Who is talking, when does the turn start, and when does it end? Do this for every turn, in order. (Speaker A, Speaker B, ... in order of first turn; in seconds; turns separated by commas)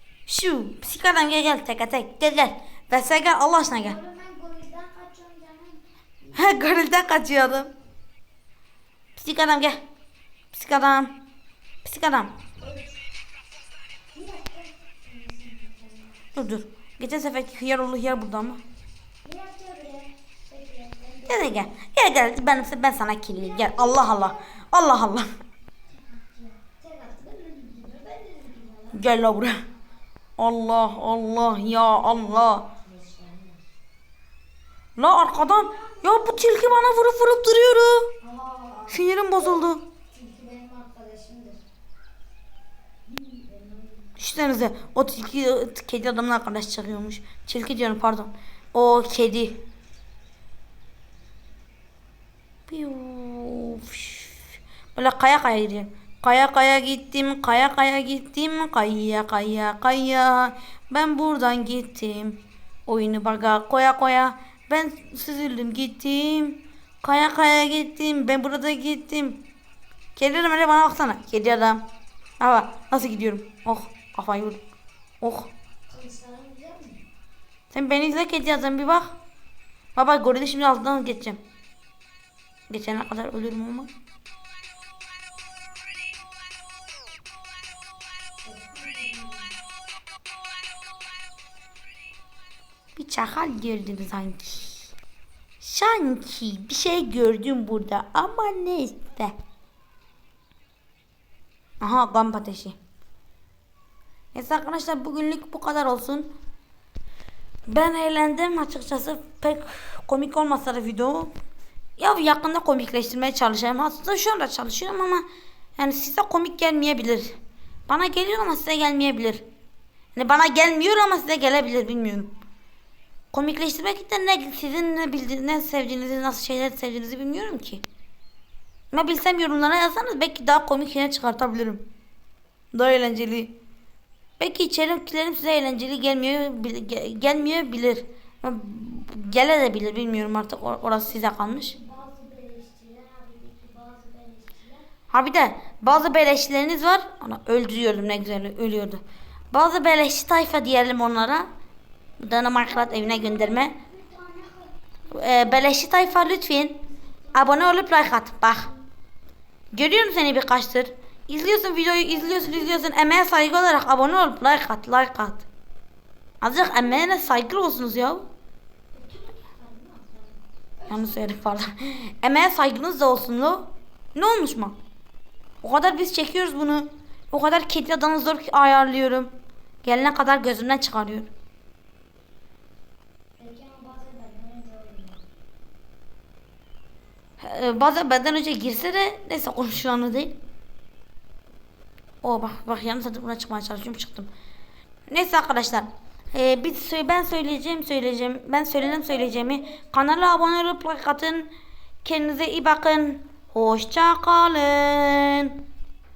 Speaker A: 0.3-4.0, Speaker B: 3.7-6.7, Speaker A: 6.3-7.7, Speaker A: 9.2-9.8, Speaker A: 10.5-11.2, Speaker A: 11.8-12.3, Speaker B: 12.6-13.0, Speaker B: 14.1-16.2, Speaker A: 16.3-18.6, Speaker B: 19.2-21.7, Speaker A: 21.3-25.3, Speaker B: 23.4-24.4, Speaker B: 25.9-29.0, Speaker A: 28.9-29.6, Speaker A: 30.4-32.7, Speaker B: 32.7-33.6, Speaker A: 35.0-38.1, Speaker B: 35.3-37.0, Speaker B: 38.2-41.6, Speaker A: 38.9-39.8, Speaker B: 43.0-44.1, Speaker A: 44.2-49.6, Speaker A: 52.7-54.4, Speaker A: 54.9-69.4, Speaker A: 70.2-71.8, Speaker A: 72.4-74.6, Speaker A: 75.2-75.5, Speaker B: 75.9-77.0, Speaker A: 77.7-79.1, Speaker A: 80.0-81.4, Speaker A: 82.7-83.9, Speaker B: 88.4-89.5, Speaker A: 93.0-94.9, Speaker A: 95.6-99.3, Speaker A: 101.8-102.8, Speaker A: 104.3-106.3, Speaker A: 107.7-111.3, Speaker A: 112.0-115.2, Speaker A: 115.8-117.3, Speaker A: 117.9-119.4, Speaker A: 120.1-122.3, Speaker A: 123.3-127.8, Speaker A: 128.9-131.8, Speaker A: 132.7-133.6, Speaker A: 134.4-141.7, Speaker B: 140.1-144.9, Speaker A: 145.1-151.5, Speaker A: 152.2-153.8, Speaker B: 152.6-157.9, Speaker A: 155.1-156.8, Speaker A: 157.3-158.7, Speaker A: 159.7-165.4, Speaker B: 162.1-162.9, Speaker A: 166.4-168.3, Speaker B: 168.9-171.4, Speaker A: 170.9-174.8, Speaker A: 175.6-179.3, Speaker A: 179.8-181.3, Speaker B: 183.4-185.2, Speaker A: 187.4-190.4, Speaker A: 192.2-194.3, Speaker A: 195.1-201.5, Speaker B: 198.7-200.5, Speaker A: 202.0-205.5